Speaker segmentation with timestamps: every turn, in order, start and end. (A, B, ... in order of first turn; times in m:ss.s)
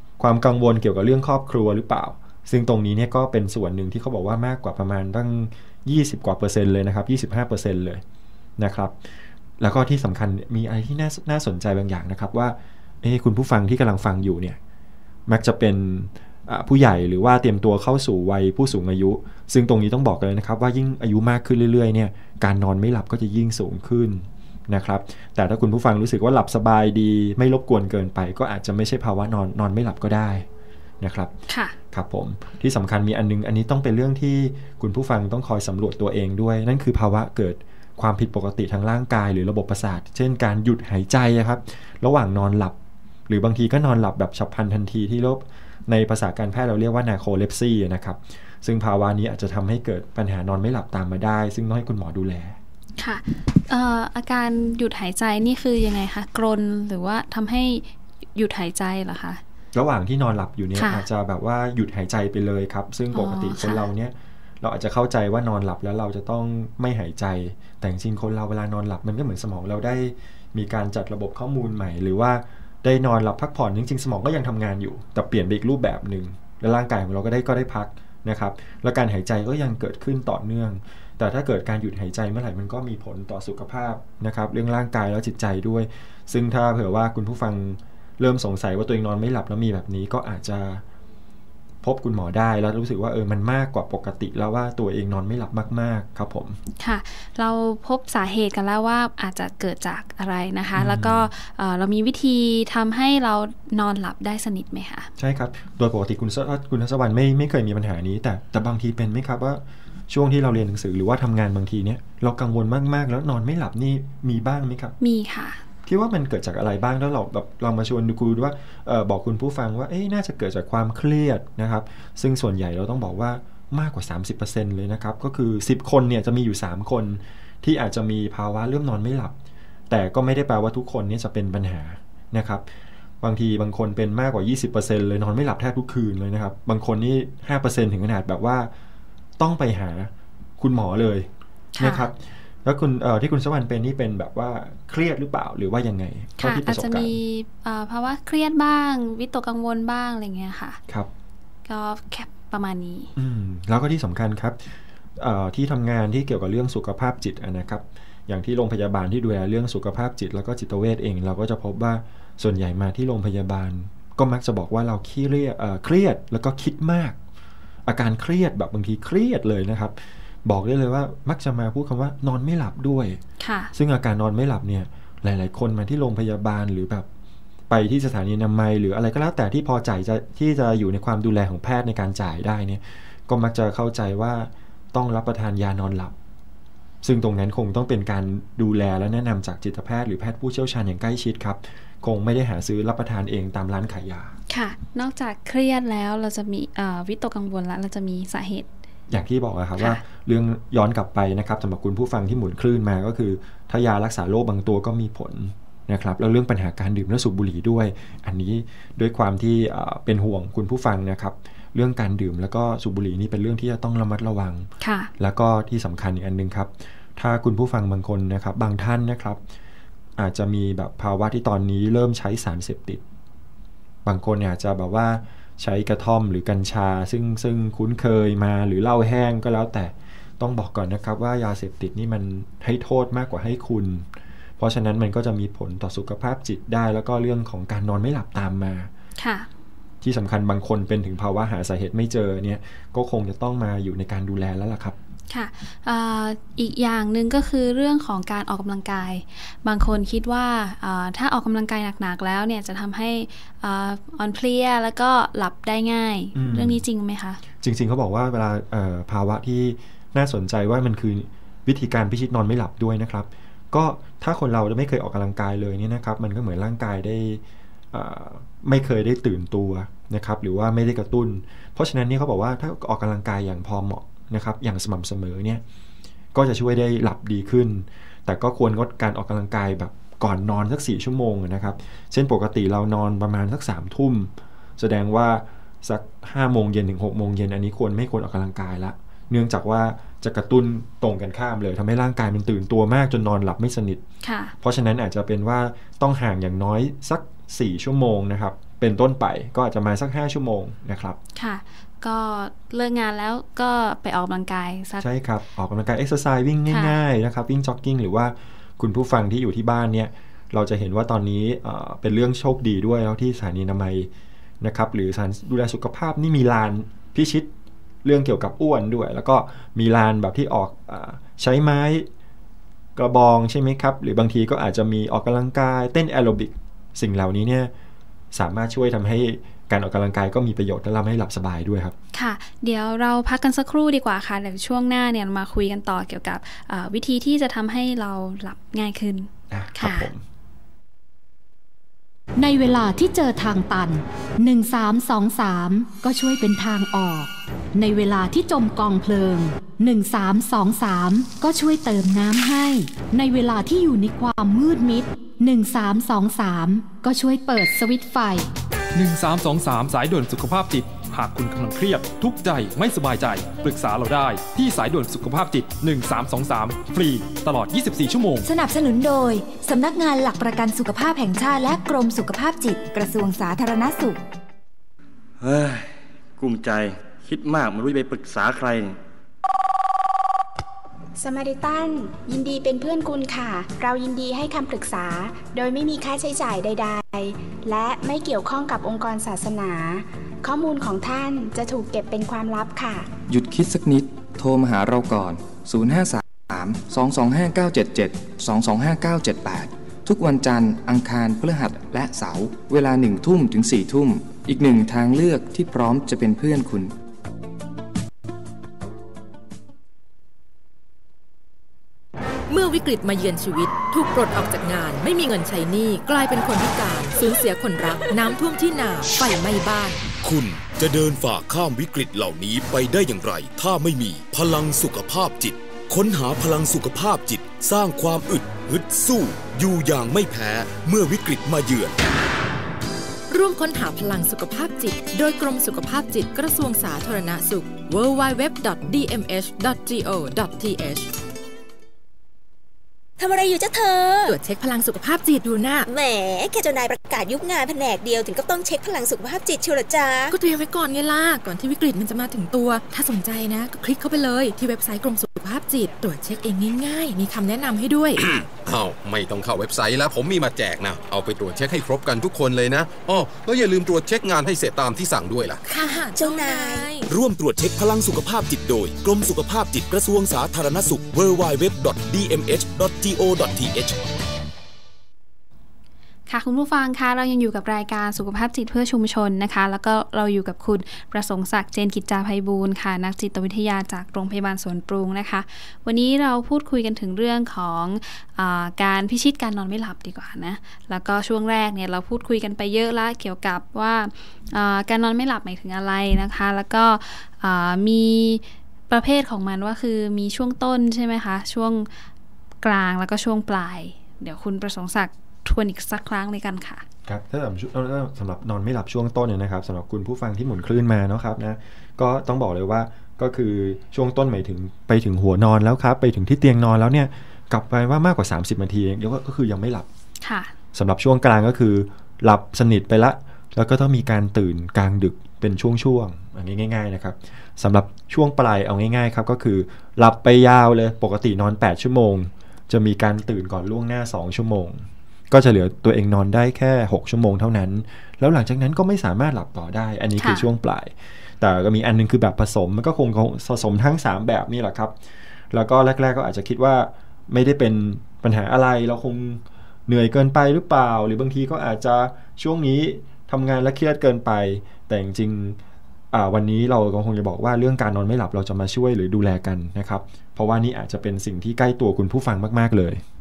0:00.2-0:08.0 A
0:08.6-0:08.9 A
0:09.6-0:14.6 A
0:15.3-0:30.4 A
0:31.0-0:31.3 A
0:31.5-0:31.8 B
0:31.9-0:42.8 A
0:43.3-0:52.6 A
0:53.0-0:59.4 B
0:59.7-1:30.8 A
1:00.8-1:01.0 B
1:03.1-1:03.8 B
1:31.8-1:36.6 A
1:36.8-1:45.1 B
1:40.7-1:41.3 A
1:45.2-1:54.9 A
1:55.0-1:55.6 B
1:55.8-2:09.3 A
2:09.9-2:12.6 A
2:13.2-2:18.7 A
2:19.4-2:27.1 A
2:21.8-2:22.1 B
2:26.4-2:30.8 B
2:31.7-2:33.1 B
2:33.2-2:47.2 A
2:47.8-2:53.2 A
2:53.4-2:53.7 B
2:53.7-2:57.1 A
2:57.7-3:06.1 A
3:07.0-3:14.4 A
3:14.5-3:18.7 B
3:19.1-3:39.4 A
3:34.8-3:35.1 B
3:40.2-3:43.0 A
3:44.0-3:54.1 A
3:54.6-3:58.9 A
3:59.2-3:59.5 B
4:00.0-4:05.0 A
4:05.3-4:17.4 B
4:16.3-4:16.8 A
4:17.6-4:35.6 A
4:36.3-4:54.0 A
4:54.2-4:54.5 B
4:54.6-5:01.2 A
5:01.4-5:05.0 B
5:05.0-5:14.1 A
5:06.7-5:06.9 B
5:14.6-5:17.5 A
5:18.0-5:22.1 A
5:23.0-5:27.7 A
5:28.3-5:32.0 A
5:32.1-5:40.1 B
5:39.5-5:40.2 A
5:42.4-5:58.5 C
5:58.9-6:08.4 D
6:08.4-6:14.2 E
6:15.4-6:19.0 F
6:21.2-6:33.1 G
6:33.3-6:46.9 H
6:52.5-7:00.0 I
7:00.2-7:11.9 J
7:13.3-7:21.1 I
7:23.2-7:24.3 K
7:24.2-7:25.9 I
7:25.9-7:30.3 K
7:30.3-7:38.2 I
7:38.2-7:45.6 J
7:45.7-7:47.0 I
7:46.2-7:46.9 K
7:47.1-7:54.0 J
7:56.3-8:21.9 B
8:22.6-8:26.8 B
8:27.0-8:39.9 A
8:40.2-8:40.5 B
8:40.7-9:05.0 A
9:00.2-9:00.5 B
9:05.5-9:15.6 A
9:16.1-9:23.0 A